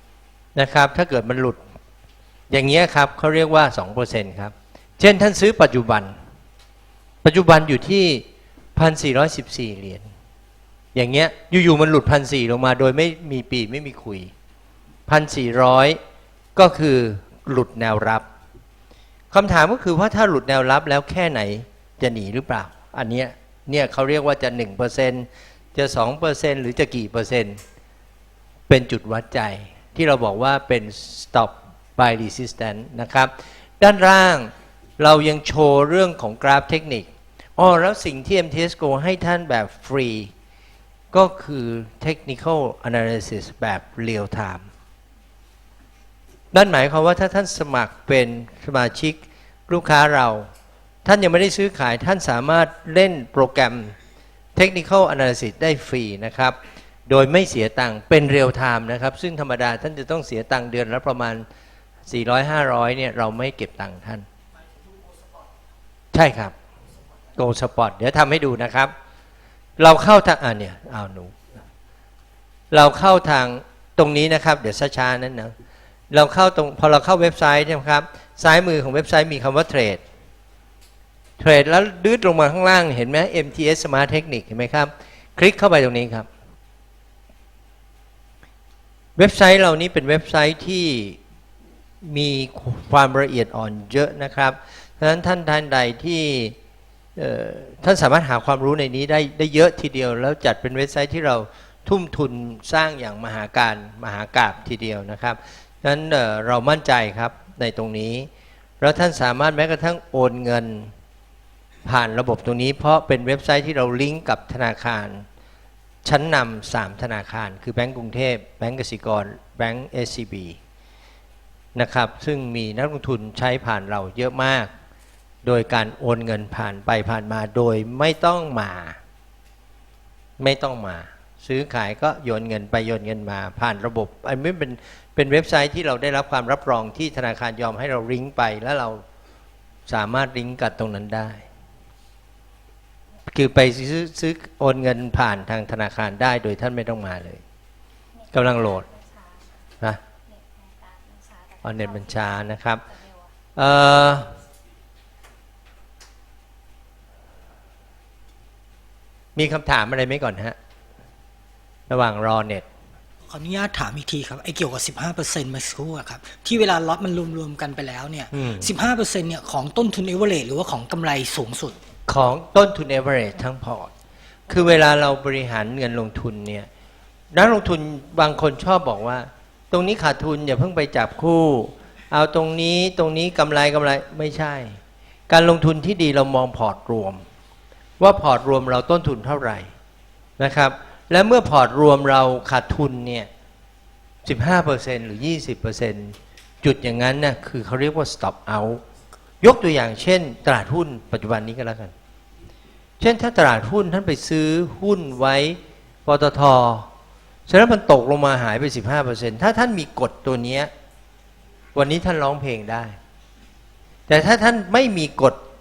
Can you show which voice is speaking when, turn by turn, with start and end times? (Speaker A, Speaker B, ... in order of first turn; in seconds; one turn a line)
Speaker A: 0.6-1.6
Speaker A: 2.5-6.1
Speaker A: 7.2-8.2
Speaker A: 8.8-10.1
Speaker A: 10.9-14.3
Speaker A: 15.1-16.0
Speaker A: 16.6-18.2
Speaker A: 19.3-27.6
Speaker A: 28.7-40.3
Speaker A: 41.1-44.6
Speaker A: 46.5-50.5
Speaker A: 51.0-53.9
Speaker A: 54.5-56.6
Speaker A: 57.1-61.4
Speaker A: 62.1-64.3
Speaker A: 66.1-66.5
Speaker A: 67.4-68.9
Speaker A: 69.8-71.3
Speaker A: 72.7-75.5
Speaker A: 76.1-80.0
Speaker A: 81.4-86.3
Speaker A: 89.2-91.2
Speaker A: 92.0-96.5
Speaker A: 97.2-108.3
Speaker A: 108.8-110.9
Speaker A: 111.8-115.2
Speaker A: 116.0-120.6
Speaker A: 121.8-124.7
Speaker A: 125.4-129.0
Speaker A: 130.4-139.0
Speaker A: 139.9-141.4
Speaker A: 143.3-147.4
Speaker B: 148.2-149.5
Speaker A: 148.3-148.9
Speaker B: 150.3-152.3
Speaker A: 151.6-152.8
Speaker B: 152.9-153.3
Speaker A: 153.6-154.3
Speaker A: 159.4-160.6
Speaker A: 161.9-162.7
Speaker C: 163.3-171.8
Speaker A: 168.3-168.7
Speaker A: 172.1-173.9
Speaker A: 174.5-176.7
Speaker A: 177.3-184.8
Speaker A: 185.3-187.2
Speaker A: 188.0-189.7
Speaker A: 190.4-193.3
Speaker A: 194.2-198.8
Speaker A: 199.4-201.9
Speaker A: 203.0-206.9
Speaker A: 207.5-210.7
Speaker A: 211.8-212.9
Speaker A: 214.1-215.4